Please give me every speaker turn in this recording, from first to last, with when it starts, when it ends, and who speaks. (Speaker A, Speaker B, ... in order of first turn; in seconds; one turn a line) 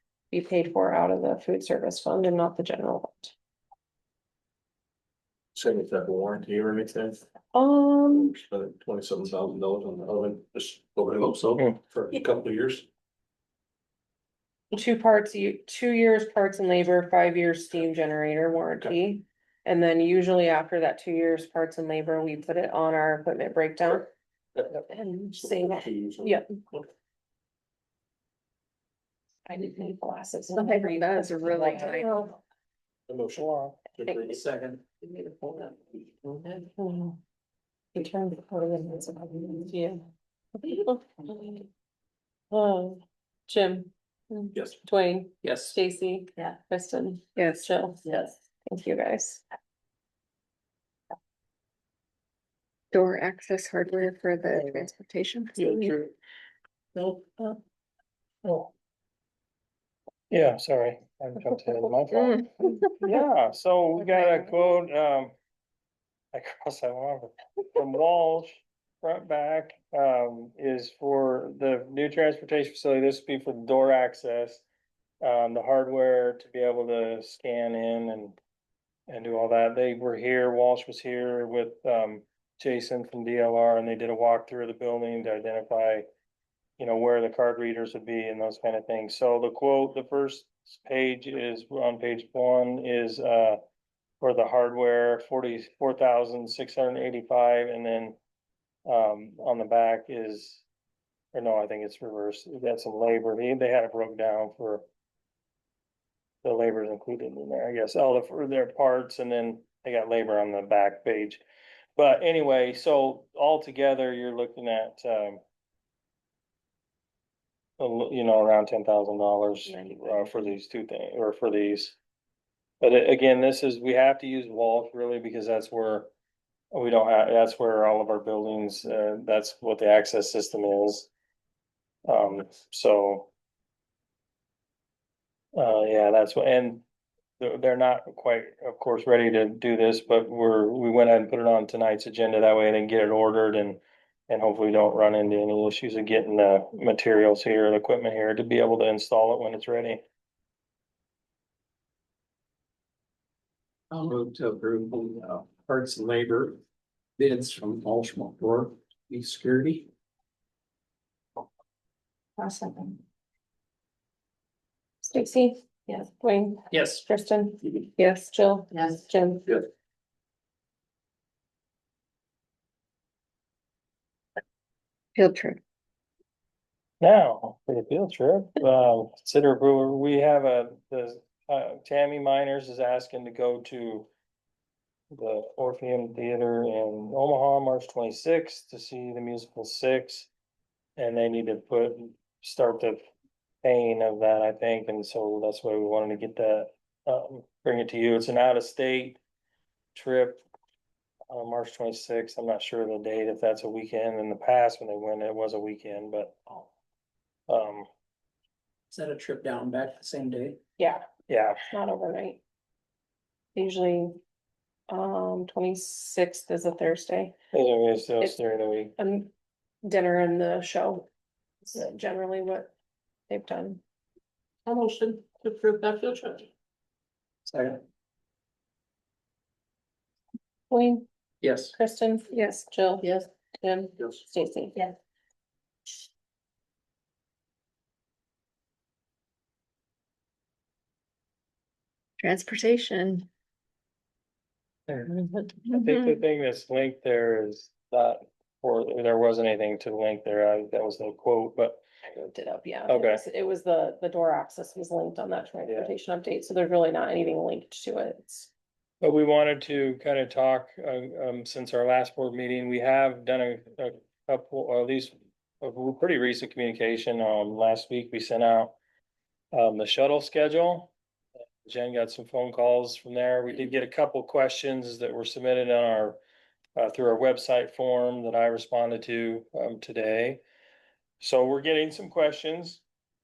Speaker A: 0.3-3.3
Speaker B: 5.5-7.2
Speaker A: 7.5-8.4
Speaker B: 8.2-12.9
Speaker C: 11.3-11.6
Speaker A: 14.7-24.1
Speaker A: 24.7-26.5
Speaker B: 25.3-26.8
Speaker A: 29.5-32.4
Speaker D: 30.5-32.2
Speaker B: 33.1-34.4
Speaker E: 33.4-33.8
Speaker C: 34.2-35.7
Speaker A: 36.4-37.2
Speaker A: 37.9-40.0
Speaker A: 40.6-41.7
Speaker A: 42.5-48.0
Speaker C: 45.4-45.8
Speaker D: 47.4-47.7
Speaker C: 48.0-48.3
Speaker A: 48.7-49.4
Speaker D: 52.9-56.0
Speaker C: 55.6-56.0
Speaker E: 58.4-58.7
Speaker E: 60.3-65.3
Speaker D: 62.1-62.7
Speaker E: 66.3-74.7
Speaker E: 75.2-78.4
Speaker E: 79.1-86.0
Speaker E: 86.8-93.6
Speaker E: 94.2-98.2
Speaker E: 98.9-100.6
Speaker E: 101.3-104.8
Speaker E: 106.4-111.4
Speaker E: 112.0-115.4
Speaker E: 117.8-122.0
Speaker A: 119.7-120.5
Speaker E: 122.8-126.1
Speaker E: 126.7-131.1
Speaker E: 132.1-133.3
Speaker E: 135.6-136.8
Speaker E: 137.4-150.0
Speaker C: 153.9-156.6
Speaker C: 157.2-159.9
Speaker A: 165.0-169.6
Speaker C: 166.7-167.0
Speaker D: 175.2-175.6
Speaker E: 177.0-184.1
Speaker E: 185.1-190.3
Speaker E: 191.0-193.0
Speaker E: 193.6-199.2
Speaker E: 199.9-200.4
Speaker E: 201.3-206.7
Speaker E: 207.5-207.9
Speaker C: 208.9-210.6
Speaker A: 210.8-211.1
Speaker E: 211.3-211.6
Speaker A: 211.7-212.4
Speaker A: 213.6-214.2
Speaker A: 214.9-217.4
Speaker E: 217.5-218.9
Speaker A: 219.0-219.3
Speaker A: 219.8-221.1
Speaker A: 221.7-222.7
Speaker A: 223.3-223.8
Speaker C: 224.7-226.5
Speaker C: 227.4-227.8
Speaker A: 230.7-231.1
Speaker C: 231.4-231.8
Speaker A: 231.8-234.9
Speaker D: 242.2-243.3
Speaker E: 244.9-245.1
Speaker E: 245.6-251.8
Speaker A: 252.1-258.5
Speaker E: 252.9-253.2
Speaker E: 255.7-255.9
Speaker E: 259.0-268.8
Speaker E: 269.5-270.9
Speaker E: 271.6-276.2
Speaker E: 276.8-280.4
Speaker E: 281.2-282.8